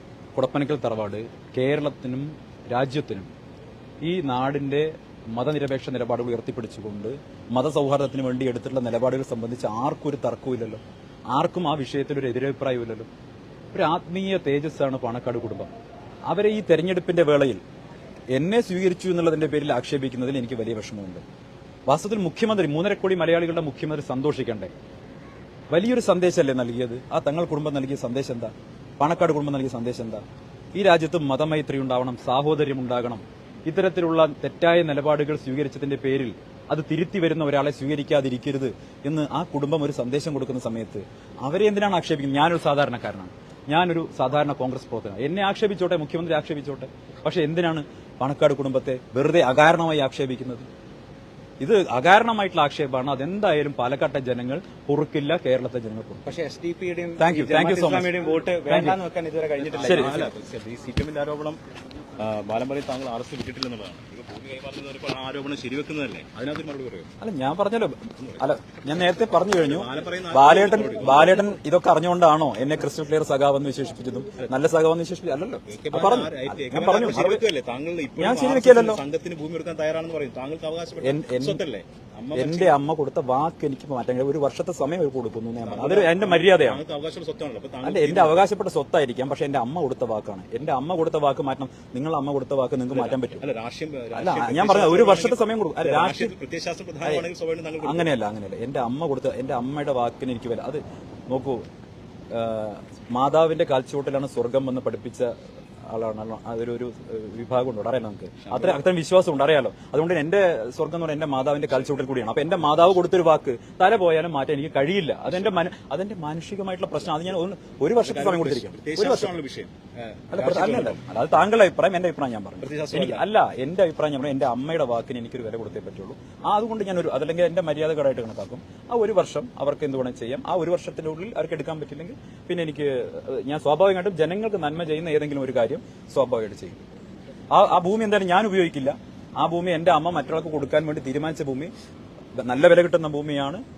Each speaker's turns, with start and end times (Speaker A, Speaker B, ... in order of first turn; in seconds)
Speaker A: 0.3-3.3, 4.0-13.1, 13.7-15.7, 16.3-17.6, 18.3-21.2, 21.9-24.7, 25.7-50.6, 51.6-56.2, 57.2-58.1, 58.7-59.0, 59.8-60.1, 67.2-77.4, 78.2-79.0, 81.0-81.6, 82.3-86.8, 87.8-93.4, 94.1-96.3, 97.8-101.7, 102.3-105.3, 105.9-119.3, 120.3-136.8, 137.5-141.7, 142.3-143.6
Speaker B: 56.2-60.3
Speaker C: 59.6-61.6, 62.2-67.1, 68.2-68.5, 69.5-71.5, 75.7-82.8, 85.6-88.5, 92.9-98.1, 108.4-108.8, 118.0-121.0, 122.6-123.2